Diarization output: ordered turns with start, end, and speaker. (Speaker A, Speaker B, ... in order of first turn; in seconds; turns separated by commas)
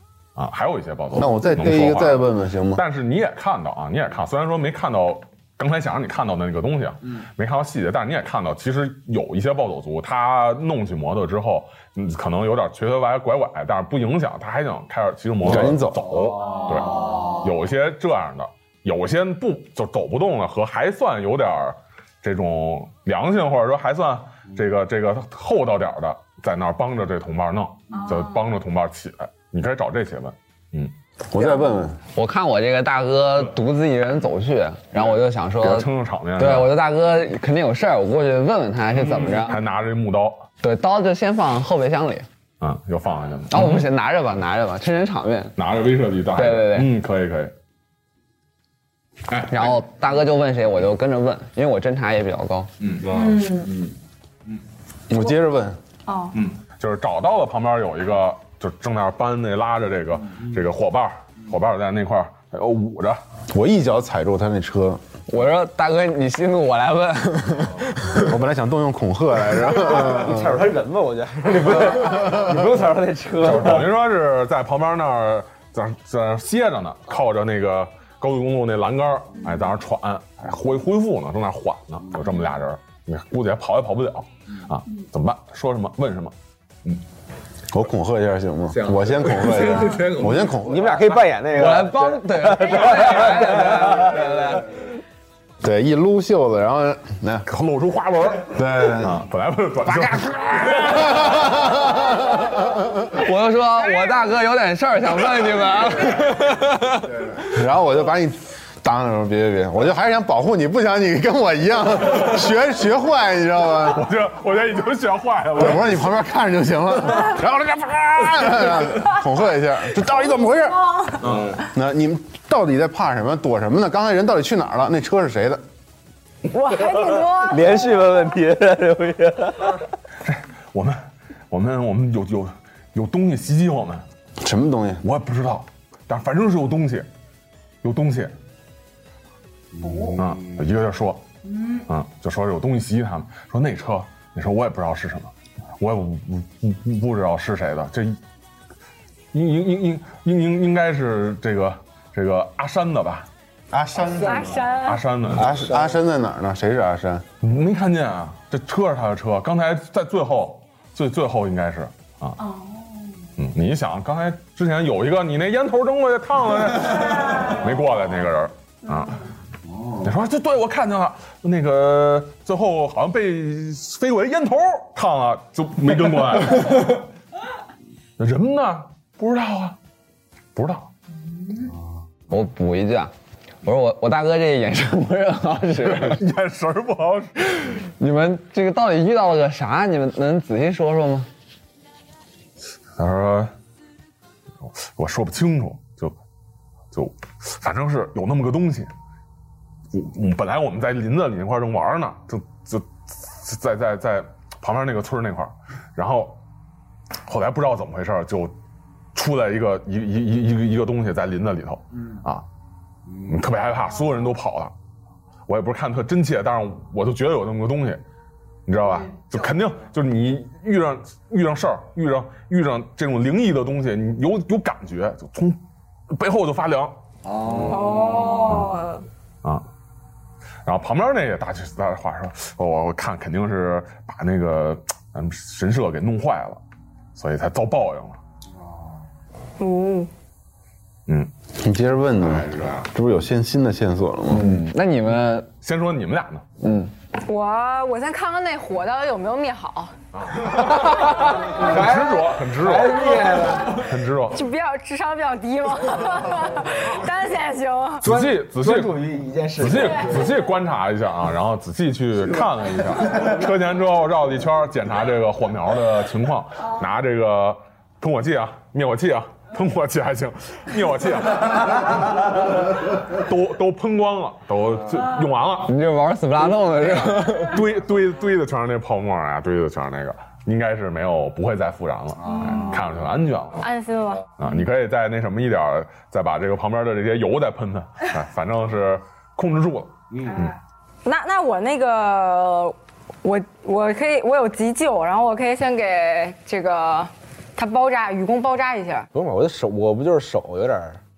Speaker A: 0.3-30.9, Speaker B: 1.1-2.8, Speaker B: 15.4-16.2, Speaker C: 28.0-28.2, Speaker B: 31.3-32.0, Speaker D: 32.1-39.6, Speaker A: 35.6-36.7, Speaker A: 39.2-40.5, Speaker D: 40.6-42.2, Speaker A: 42.6-43.8, Speaker D: 43.5-45.5, Speaker A: 45.6-47.5, Speaker D: 46.3-46.9, Speaker A: 49.3-49.8, Speaker D: 49.5-52.7, Speaker A: 52.8-53.1, Speaker C: 53.1-53.8, Speaker B: 55.1-55.8, Speaker C: 56.1-56.4, Speaker A: 56.4-63.2, Speaker B: 63.5-65.0, Speaker D: 65.3-67.9, Speaker B: 68.1-70.6, Speaker E: 69.7-73.9, Speaker A: 73.4-86.3, Speaker B: 87.7-91.0, Speaker E: 90.5-94.2, Speaker D: 91.5-94.7, Speaker B: 95.6-97.5, Speaker A: 97.5-101.8, Speaker B: 98.5-99.2, Speaker D: 99.8-101.7, Speaker B: 101.2-102.7, Speaker D: 103.0-106.8, Speaker B: 107.3-114.0, Speaker A: 113.9-116.1, Speaker B: 115.5-125.6, Speaker C: 126.5-128.0, Speaker E: 127.4-129.8, Speaker A: 130.2-134.0, Speaker B: 134.4-135.0, Speaker A: 135.0-137.1, Speaker A: 137.8-138.3, Speaker E: 139.8-140.2, Speaker A: 140.1-148.2, Speaker A: 149.3-153.3, Speaker B: 153.7-154.7, Speaker C: 154.2-155.0, Speaker A: 154.7-155.7, Speaker B: 155.3-157.2, Speaker A: 157.4-162.4, Speaker C: 162.4-163.0, Speaker A: 163.4-169.2, Speaker A: 169.8-177.1, Speaker A: 178.2-179.8, Speaker A: 180.6-180.9, Speaker D: 182.3-183.1, Speaker D: 183.6-186.2, Speaker A: 185.9-187.8, Speaker D: 188.0-191.3, Speaker A: 193.0-193.5, Speaker A: 194.6-196.2, Speaker A: 196.9-198.9, Speaker A: 199.9-206.4, Speaker A: 207.2-208.5, Speaker A: 209.1-212.4, Speaker A: 213.2-214.7, Speaker A: 215.5-218.0, Speaker A: 218.7-227.8, Speaker C: 227.6-229.1, Speaker A: 228.4-228.7, Speaker A: 230.6-236.6, Speaker A: 237.1-238.2, Speaker C: 239.6-240.1, Speaker A: 241.1-241.3, Speaker B: 241.5-244.5, Speaker A: 242.3-242.8, Speaker D: 244.3-245.5, Speaker A: 245.6-246.4, Speaker D: 246.6-246.9, Speaker C: 247.2-249.9, Speaker A: 250.1-254.4, Speaker E: 250.5-253.8, Speaker C: 254.3-258.1, Speaker A: 258.0-259.0, Speaker E: 258.0-260.3, Speaker A: 259.6-272.1, Speaker A: 273.1-275.7, Speaker D: 275.7-277.6, Speaker A: 277.4-283.6, Speaker C: 282.3-282.7, Speaker C: 283.6-284.3, Speaker A: 284.4-290.6, Speaker C: 291.0-299.1, Speaker E: 299.1-301.0